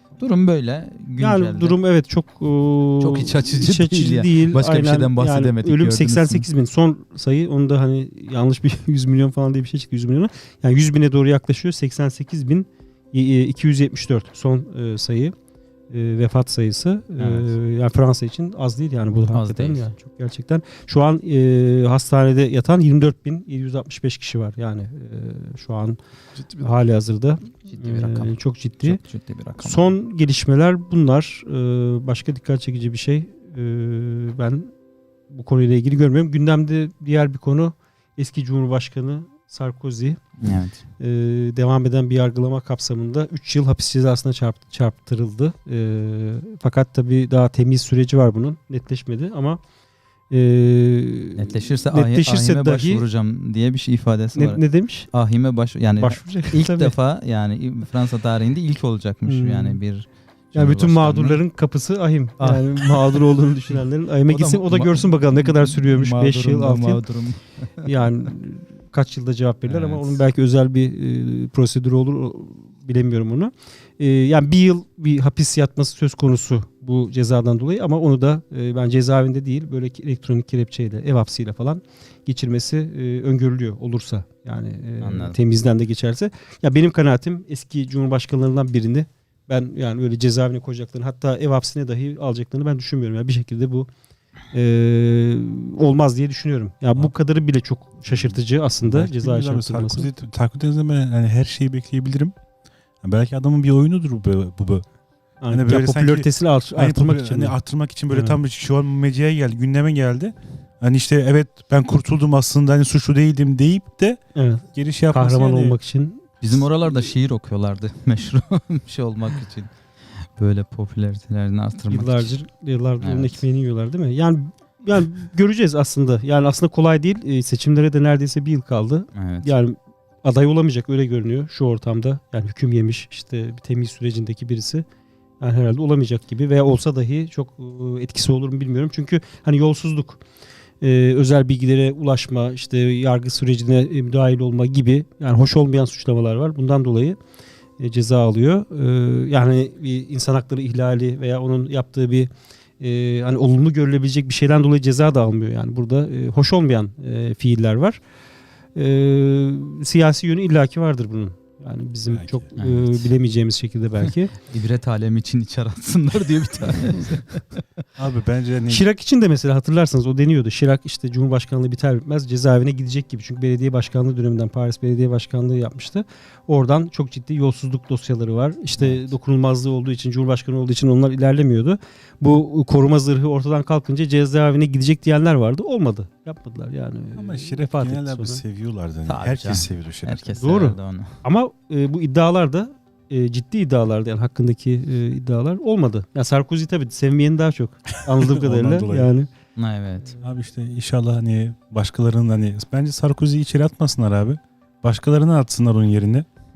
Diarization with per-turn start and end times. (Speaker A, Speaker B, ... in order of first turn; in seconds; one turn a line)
Speaker A: 0.2-1.8
Speaker B: 1.2-15.3
Speaker A: 3.0-6.5
Speaker B: 15.9-26.0
Speaker A: 17.2-17.5
Speaker A: 19.3-19.9
Speaker B: 26.6-29.0
Speaker A: 27.7-29.9
Speaker B: 29.6-34.7
Speaker B: 35.3-40.2
Speaker A: 40.4-40.8
Speaker B: 41.0-49.6
Speaker B: 50.3-53.0
Speaker A: 51.4-54.6
Speaker B: 54.3-55.1
Speaker A: 55.1-61.4
Speaker B: 56.0-57.0
Speaker B: 59.2-59.8
Speaker B: 60.5-67.0
Speaker A: 62.4-68.3
Speaker B: 67.8-93.9
Speaker A: 69.6-70.2
Speaker A: 85.0-85.4
Speaker B: 94.5-100.1
Speaker C: 98.8-102.3
Speaker C: 103.0-104.8
Speaker B: 105.4-107.5
Speaker C: 105.5-114.2
Speaker B: 108.1-108.4
Speaker B: 114.3-117.1
Speaker C: 114.7-115.7
Speaker A: 116.4-119.7
Speaker A: 120.2-122.3
Speaker B: 121.9-134.8
Speaker A: 123.0-123.4
Speaker A: 129.1-129.5
Speaker B: 135.4-140.2
Speaker B: 140.8-147.2
Speaker B: 147.8-152.3
Speaker B: 152.8-158.0
Speaker B: 158.8-164.3
Speaker C: 162.1-162.4
Speaker A: 162.6-163.1
Speaker A: 164.4-167.6
Speaker C: 168.0-168.8
Speaker B: 168.7-188.4
Speaker A: 178.8-179.0
Speaker C: 187.1-190.3
Speaker A: 189.1-191.1
Speaker B: 190.4-199.3
Speaker C: 198.1-199.1
Speaker A: 199.6-200.1
Speaker C: 200.2-206.2